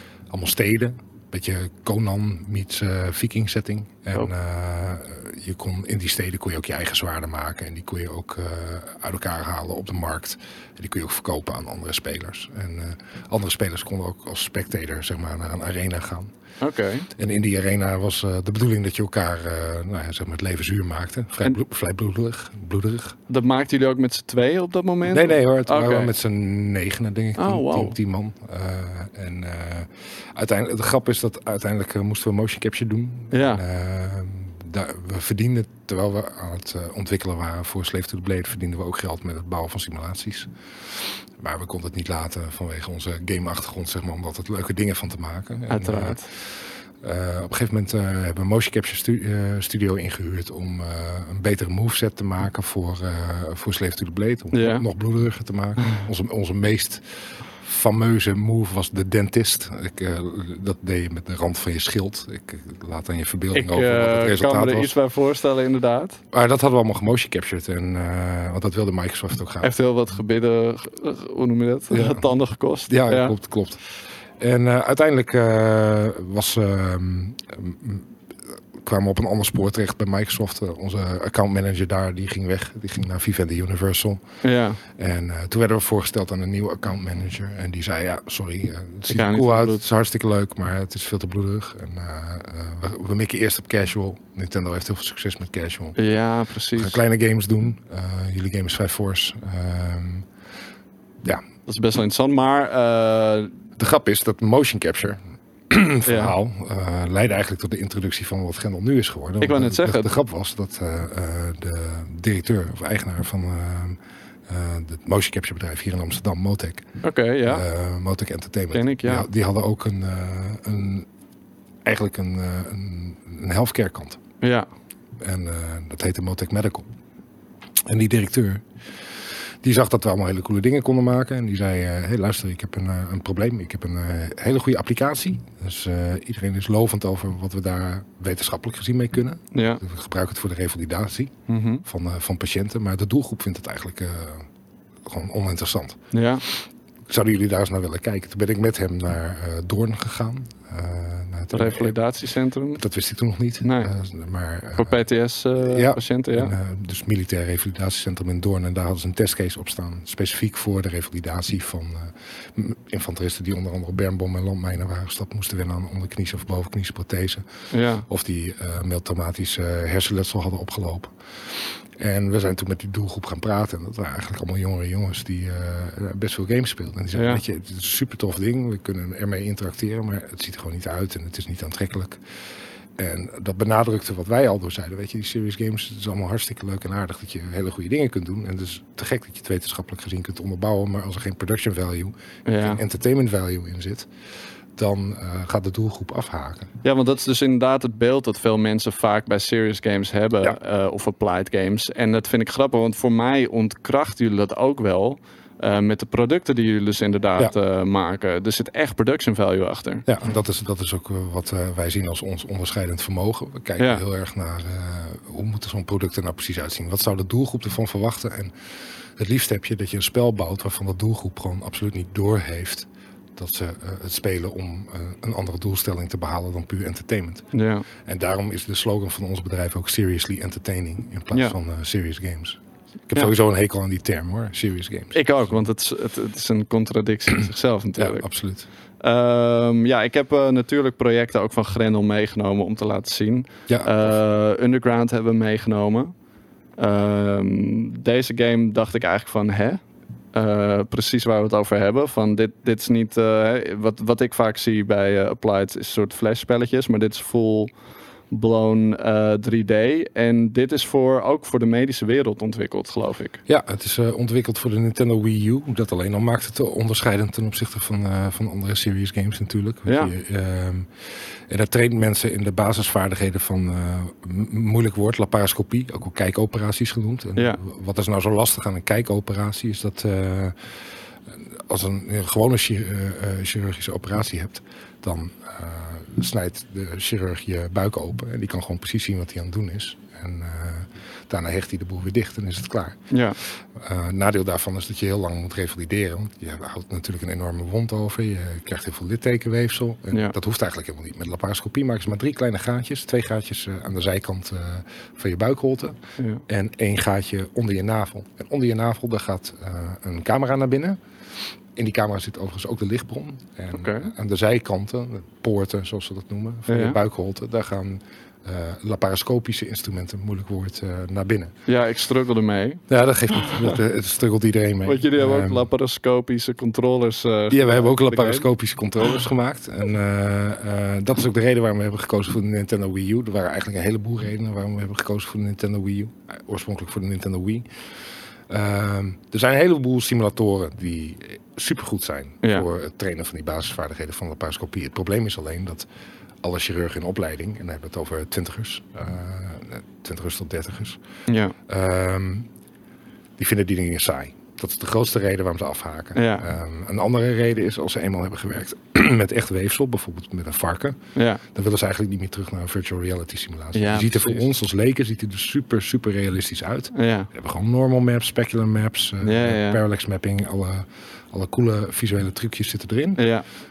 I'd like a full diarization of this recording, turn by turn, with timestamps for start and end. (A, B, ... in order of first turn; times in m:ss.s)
0:00.3-0:16.3 A
0:16.6-0:17.1 B
0:17.1-0:23.2 A
0:23.3-0:26.1 B
0:25.0-1:04.9 A
0:27.4-0:28.0 B
0:33.3-0:33.6 B
0:45.7-0:46.3 B
0:54.5-0:54.8 B
1:03.5-1:06.2 B
1:06.3-1:09.7 A
1:09.6-1:13.3 B
1:11.9-1:12.3 A
1:12.9-1:13.8 A
1:14.4-1:18.1 A
1:18.8-1:24.2 A
1:24.4-1:24.8 B
1:24.9-1:36.0 A
1:29.1-1:29.8 B
1:36.0-1:37.0 B
1:36.7-1:40.3 A
1:41.6-1:43.5 B
1:43.8-1:56.9 A
1:46.0-1:46.3 B
1:49.4-1:50.1 B
1:57.0-1:57.6 B
1:57.4-2:01.1 A
1:58.7-1:59.3 B
2:01.8-2:04.2 A
2:04.4-2:04.7 B
2:05.2-2:06.9 A
2:07.8-2:08.6 A
2:09.6-2:24.5 A
2:19.5-2:19.8 B
2:21.5-2:21.8 B
2:25.0-2:32.0 A
2:26.1-2:26.4 B
2:31.5-2:32.8 B
2:32.8-2:35.0 A
2:33.6-2:33.9 B
2:34.8-2:36.5 B
2:35.6-2:47.4 A
2:47.7-2:48.0 B
2:48.0-3:02.2 A
2:57.1-2:57.4 B
3:03.0-3:14.1 A
3:12.4-3:12.8 B
3:14.8-3:16.7 A
3:16.8-3:30.0 B
3:30.0-3:38.5 A
3:39.2-3:47.5 A
3:47.5-3:47.8 B
3:48.0-3:55.6 A
3:55.1-3:58.2 B
3:58.0-3:58.7 A
3:59.0-4:06.1 B
4:03.7-4:04.1 A
4:06.8-4:09.8 B
4:10.3-4:17.7 B
4:18.3-4:23.4 B
4:23.5-4:40.7 A
4:29.8-4:30.1 B
4:41.3-5:06.0 A
4:53.1-4:53.4 B
5:06.2-5:06.4 B
5:06.5-5:11.0 A
5:11.7-5:21.5 A
5:13.7-5:14.1 B
5:16.7-5:17.0 B
5:21.7-5:23.8 B
5:22.9-5:25.7 A
5:24.8-5:28.4 B
5:27.5-5:37.7 A
5:38.5-5:45.9 A
5:46.4-5:51.0 A
5:51.3-5:51.5 B
5:51.6-5:52.5 A
5:53.4-6:13.3 A
5:56.1-5:56.5 B
6:01.1-6:01.4 B
6:03.7-6:04.4 B
6:06.9-6:07.3 B
6:09.2-6:09.8 B
6:13.2-6:13.4 B